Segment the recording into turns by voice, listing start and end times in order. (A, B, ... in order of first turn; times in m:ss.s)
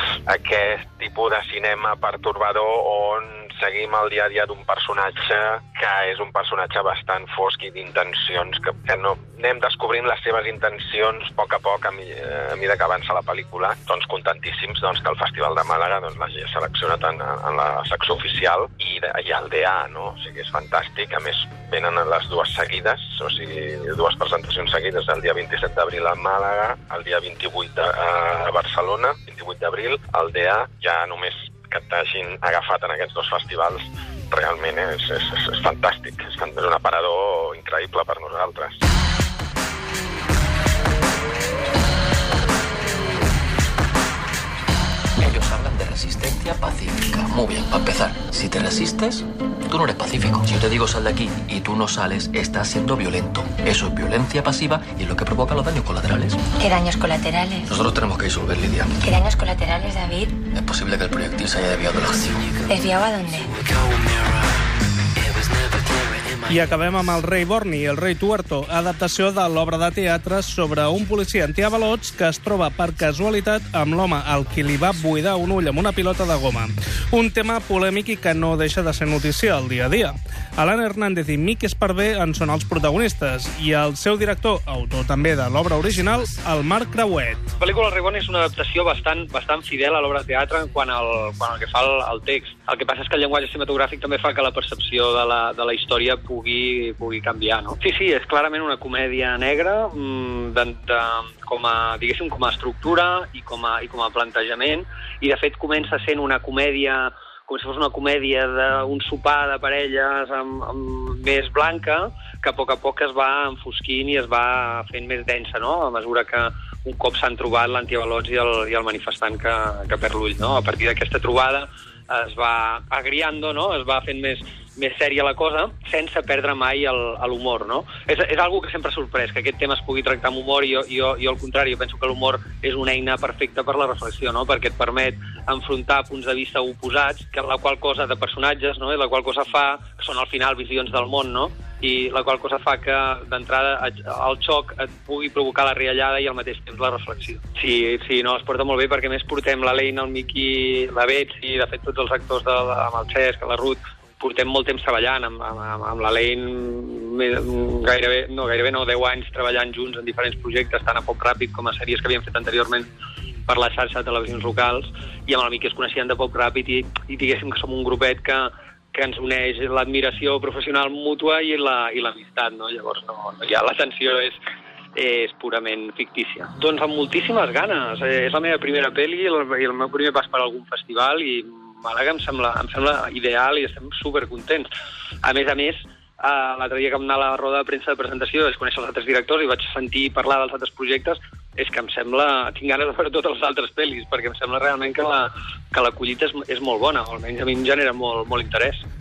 0:00.3-0:38.8 A
0:45.2-0:56.4 B
0:56.6-0:57.7 C
0:57.7-0:58.9 B
0:59.0-1:00.4 C
1:00.5-1:02.5 B
1:02.6-1:03.5 C
1:06.5-1:27.4 D
1:27.6-2:42.9 E
2:43.4-2:54.4 E
2:55.0-3:04.7 E
3:05.2-3:18.8 E